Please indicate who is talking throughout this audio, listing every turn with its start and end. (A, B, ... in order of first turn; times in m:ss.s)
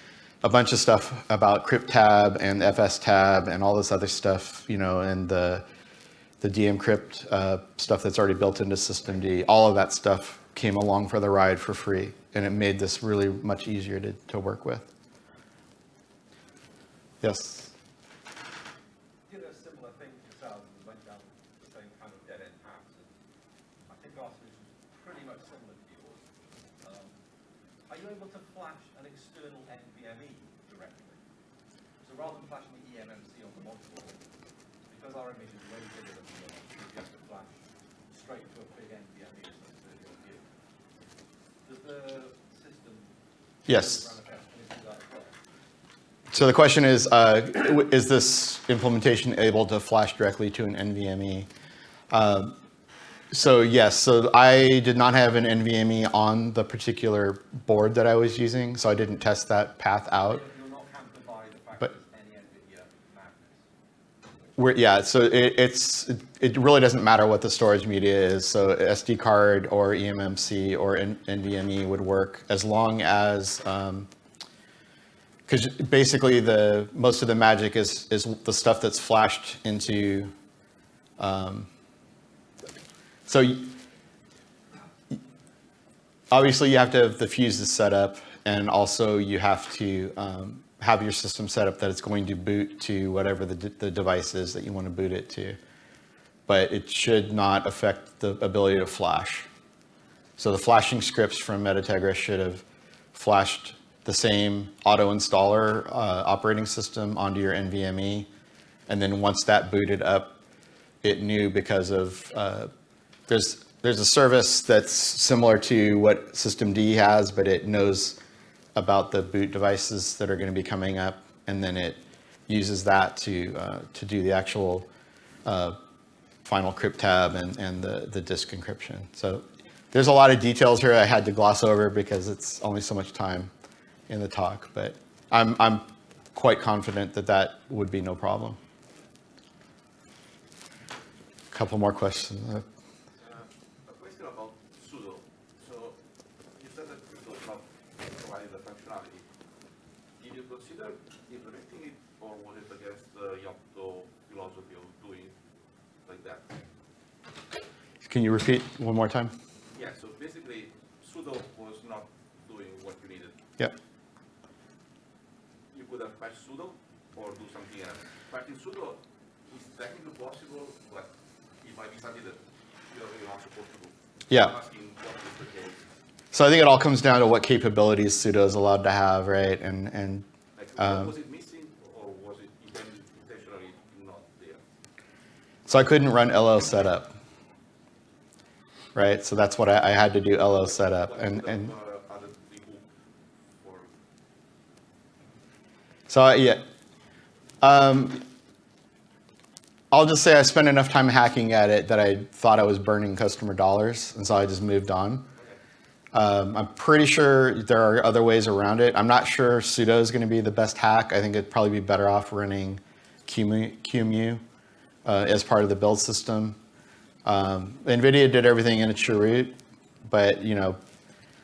0:00.4-0:05.6 A
0:06.4-0:14.9 A
0:17.2-0:17.7 A
0:19.2-0:23.1 B
0:23.9-0:26.2 B
0:26.8-0:27.2 B
0:27.9-0:31.2 B
0:32.0-0:34.2 B
0:34.9-0:37.5 B
0:38.1-0:40.4 B
0:41.6-0:43.1 B
0:43.6-0:45.3 B
0:43.7-0:44.0 A
0:46.3-0:51.5 A
0:52.1-0:52.6 A
0:53.3-1:00.4 A
1:00.2-1:03.7 B
1:04.6-1:14.1 A
1:15.5-1:20.3 A
1:21.2-1:21.7 A
1:23.3-1:23.8 A
1:26.3-1:35.6 A
1:36.5-1:39.5 A
1:40.4-1:48.3 A
1:48.9-1:50.4 A
1:51.0-1:52.7 A
1:53.3-1:58.2 A
1:58.7-2:04.9 A
2:05.4-2:05.8 A
2:06.4-2:13.5 A
2:14.1-2:18.6 A
2:21.5-2:22.6 A
2:23.2-2:26.0 C
2:26.6-2:29.2 C
2:30.2-2:35.3 C
2:36.0-2:36.5 C
2:38.0-2:39.3 A
2:39.7-2:43.4 C
2:45.7-2:55.8 C
2:56.3-3:00.2 A
3:00.6-3:04.6 C
3:00.8-3:01.1 A
3:05.7-3:07.1 A
3:08.9-3:11.7 A
3:10.8-3:12.8 C
3:13.5-3:13.9 C
3:16.1-3:16.6 A
3:17.6-3:18.2 A
3:19.9-3:25.3 A
3:26.1-3:34.4 A
3:35.0-3:36.6 A
3:37.2-3:40.8 A